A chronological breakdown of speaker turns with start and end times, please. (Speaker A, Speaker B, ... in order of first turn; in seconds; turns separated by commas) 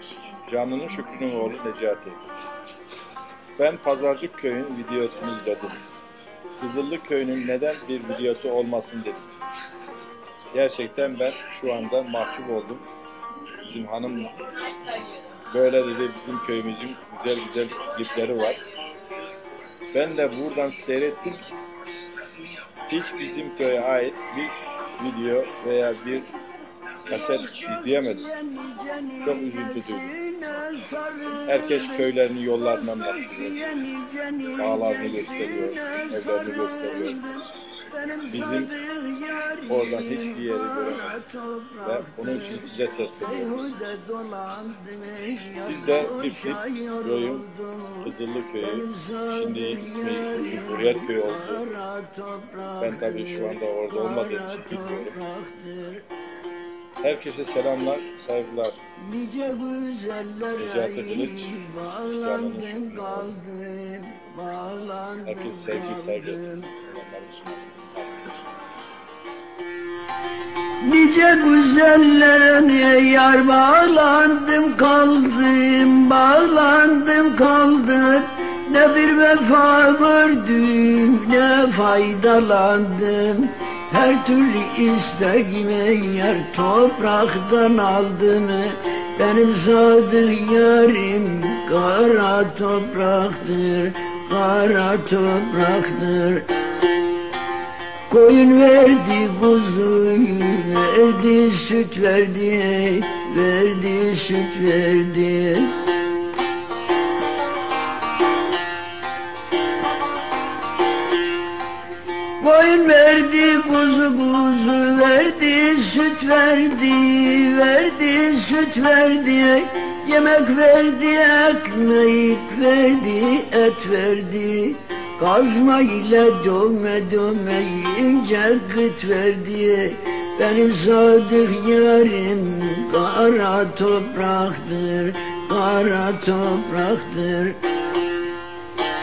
Speaker A: 0.5-2.2, Speaker A: 3.6-5.8, Speaker A: 6.6-9.3, Speaker A: 10.5-12.8, Speaker A: 13.6-14.5, Speaker A: 15.5-18.6, Speaker A: 19.9-21.4, Speaker A: 22.9-26.3, Speaker A: 27.1-28.3, Speaker B: 27.1-56.0, Speaker A: 29.2-30.1, Speaker A: 31.5-33.7, Speaker A: 34.6-37.2, Speaker A: 38.3-38.7, Speaker A: 39.7-41.2, Speaker A: 41.8-43.9, Speaker A: 45.5-47.5, Speaker A: 48.0-51.7, Speaker A: 52.8-55.2, Speaker A: 57.0-58.8, Speaker B: 59.0-66.7, Speaker A: 60.6-63.3, Speaker A: 65.2-68.4, Speaker B: 70.8-96.5, Speaker B: 98.1-105.8, Speaker B: 112.4-137.6